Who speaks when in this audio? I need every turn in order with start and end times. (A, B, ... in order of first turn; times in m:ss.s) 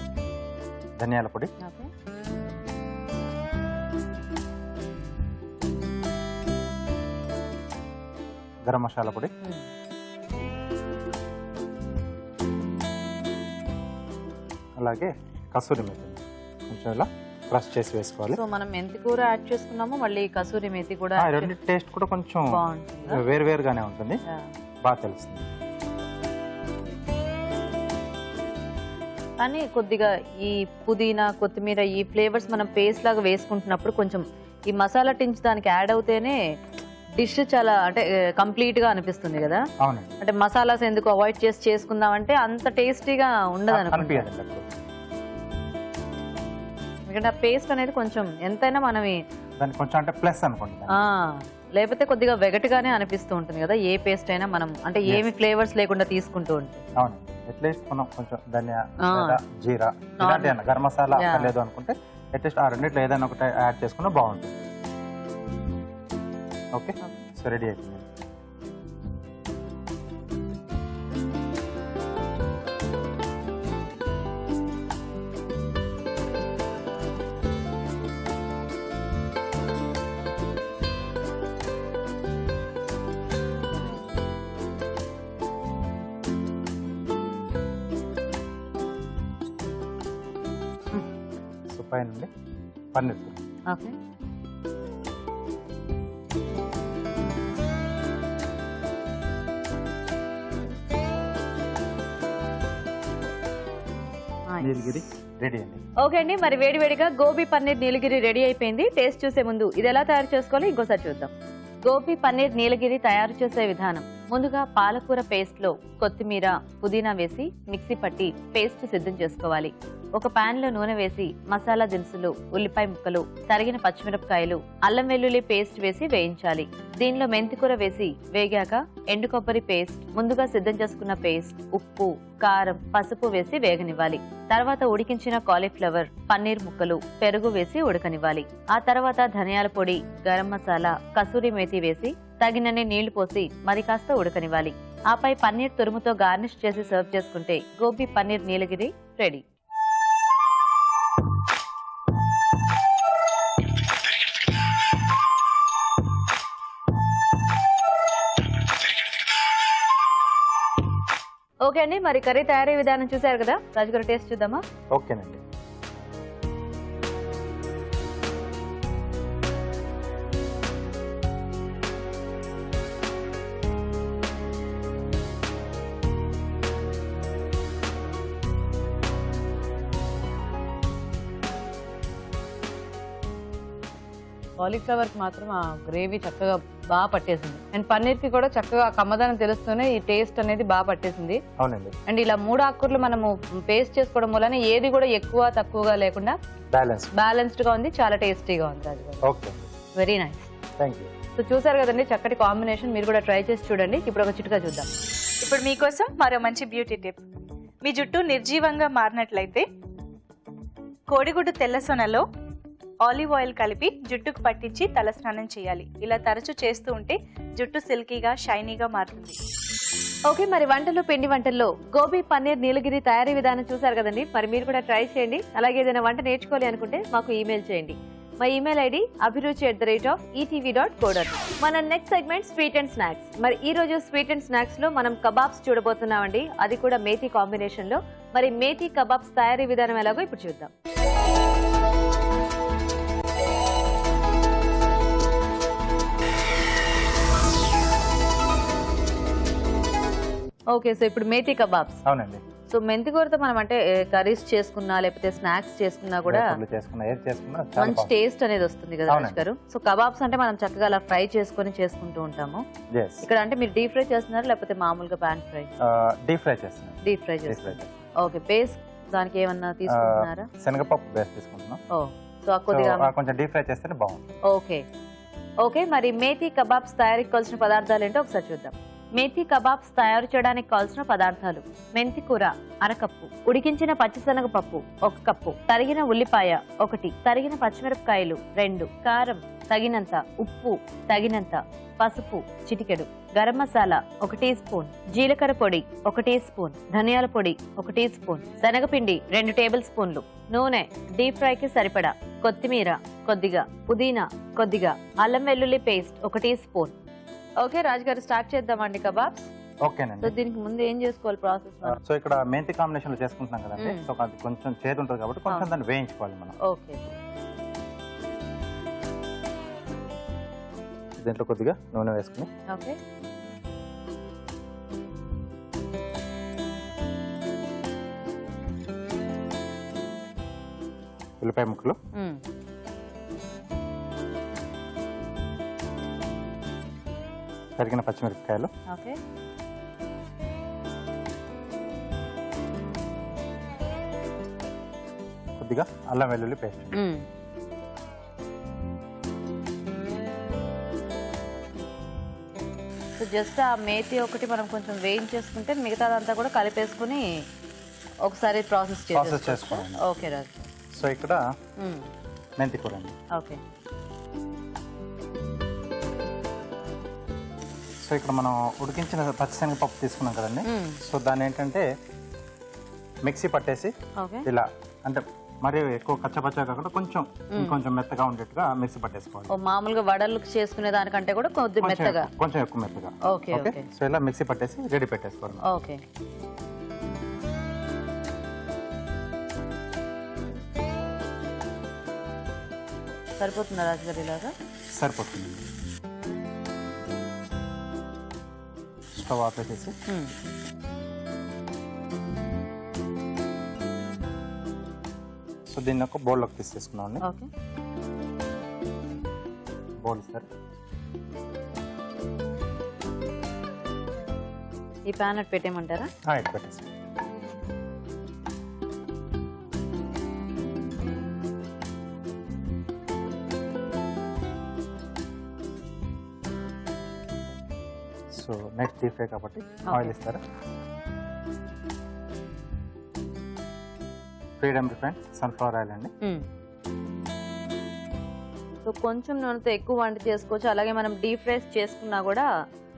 0:01.0-0:01.5 A
0:01.6-0:01.9 B
0:08.7-0:09.3 A
0:14.8-0:18.4 A
0:18.3-0:21.6 B
0:21.2-0:24.2 A
0:22.5-0:23.2 B
0:24.8-0:25.5 A
0:29.4-0:36.4 B
0:37.2-0:39.6 B
0:39.8-0:40.2 A
0:40.2-0:44.3 B
0:43.7-0:44.8 A
0:47.1-0:49.2 B
0:49.6-0:51.0 A
0:50.9-0:56.8 B
0:57.0-1:04.6 A
0:59.0-0:59.4 B
1:00.2-1:00.6 B
1:01.1-1:01.5 B
1:06.8-1:08.3 A
1:07.0-1:07.2 B
1:31.7-1:32.3 A
1:32.9-1:33.5 A
1:33.7-1:34.0 B
1:44.5-1:45.0 B
1:44.6-1:45.9 A
1:46.0-1:51.3 B
1:51.8-2:29.4 B
2:41.6-2:44.6 B
2:44.9-2:45.4 A
3:04.6-3:11.4 B
3:11.6-3:12.0 A
3:12.1-3:16.4 B
3:16.7-3:17.1 A
3:17.1-3:19.3 B
3:19.2-3:19.7 A
3:20.0-3:20.5 B
3:20.8-3:21.1 A
3:21.4-3:24.9 B
3:25.4-3:27.2 C
3:27.8-3:29.7 C
3:31.1-3:32.2 C
3:33.0-3:39.4 C
3:40.3-4:00.7 B
4:10.7-4:12.0 B
4:12.1-4:12.4 A
4:12.7-4:16.6 B
4:16.2-4:18.1 A
4:17.8-4:22.6 B
4:19.1-4:19.5 A
4:22.9-4:23.3 A
4:23.2-4:25.7 B
4:25.8-4:28.0 A
4:27.0-4:30.5 B
4:29.9-4:31.8 A
4:31.9-4:33.1 B
4:32.7-4:34.3 A
4:34.5-4:34.8 B
4:35.6-5:07.0 B
5:07.6-5:09.5 B
5:09.8-5:10.4 A
5:10.2-5:12.0 B
5:11.8-5:16.6 A
5:13.8-5:14.1 B
5:16.6-5:17.1 B
5:21.2-5:22.5 A
5:22.7-5:23.0 B
5:31.4-5:32.0 A
5:32.2-5:32.4 B
5:37.8-5:38.7 A
5:38.9-5:39.2 B
5:45.6-5:47.0 A
5:46.9-5:47.2 B
5:53.2-5:57.3 B
5:58.2-6:00.7 B
5:59.1-6:00.0 A
6:00.9-6:01.4 A
6:01.8-6:02.1 B
6:02.6-6:03.2 A
6:03.3-6:03.6 B
6:08.0-6:11.9 A
6:10.7-6:11.0 B
6:13.2-6:19.5 A
6:14.2-6:14.5 B
6:19.5-6:22.3 B
6:21.8-6:25.6 A
6:23.3-6:23.9 B
6:25.6-6:26.0 B
6:33.4-6:34.5 B
6:34.9-6:35.7 A
6:39.2-6:40.0 A
6:45.7-6:47.2 A
6:47.2-6:47.5 B
6:50.0-6:50.5 A
6:55.1-6:56.1 B
6:56.3-6:56.9 A
7:08.3-7:10.4 A
7:09.9-7:10.2 B
7:14.6-7:16.1 A
7:18.8-7:22.5 B